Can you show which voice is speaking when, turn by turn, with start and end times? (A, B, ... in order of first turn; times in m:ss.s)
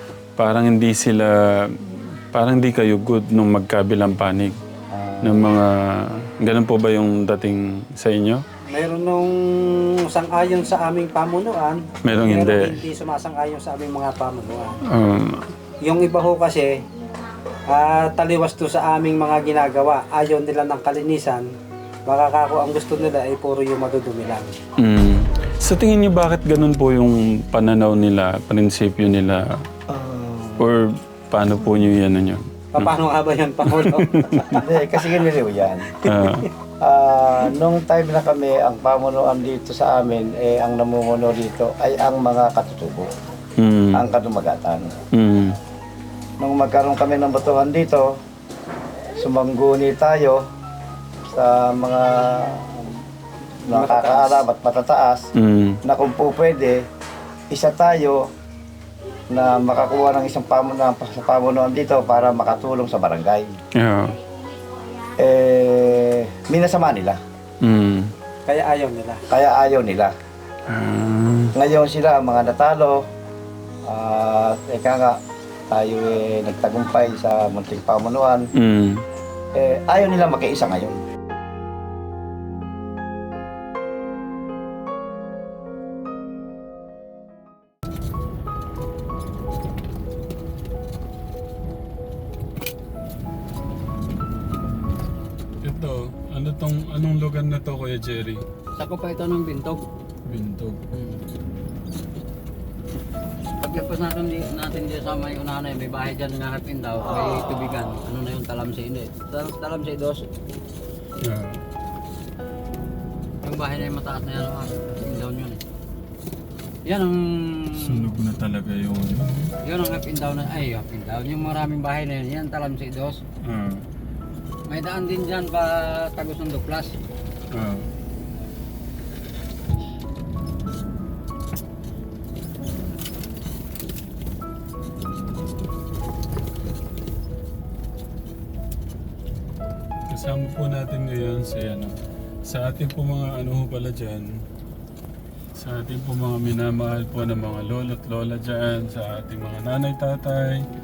0:00.4-0:04.6 A
0:04.9-0:05.6 B
0:05.2-0:08.4 A
0:08.7-0:14.8 C
0:12.0-0:12.7 A
0:14.9-0:15.5 A
0:15.8-0:16.7 C
0:17.7-0:21.5 C
0:22.1-0:24.5 C
0:24.8-0:29.5 A
0:29.9-0:30.7 B
0:30.6-0:33.0 A
0:32.7-0:34.1 C
0:33.7-0:34.6 A
0:34.5-0:36.0 B
0:36.0-0:36.5 A
0:36.1-0:36.5 C
0:36.8-0:43.1 B
0:43.6-0:44.0 A
0:43.9-0:44.9 B
0:45.2-0:45.5 A
0:46.4-0:48.1 B
0:49.2-0:50.4 B
0:51.3-0:52.8 B
0:53.7-0:55.2 B
0:53.7-0:54.4 C
0:55.4-0:55.8 A
0:55.8-0:56.8 B
0:57.5-0:58.2 B
0:59.3-1:03.5 B
1:03.8-1:04.1 A
1:05.2-1:07.2 B
1:07.6-1:08.1 A
1:08.5-1:09.2 C
1:09.3-1:10.1 B
1:10.7-1:11.5 A
1:11.6-1:13.0 B
1:13.9-1:18.5 B
1:18.6-1:19.0 A
1:19.6-1:21.0 B
1:35.6-1:38.4 A
1:38.8-1:39.8 D
1:40.3-1:40.8 A
1:40.9-1:41.2 D
1:43.6-1:50.2 D
1:51.2-1:51.6 A
1:53.4-1:55.6 D
1:56.8-1:58.0 D
1:57.7-1:59.5 A
1:59.6-2:03.2 D
2:03.4-2:03.8 A
2:04.7-2:06.9 D
2:07.5-2:07.9 A
2:20.1-2:21.9 A
2:22.5-2:24.3 A
2:25.6-2:30.6 A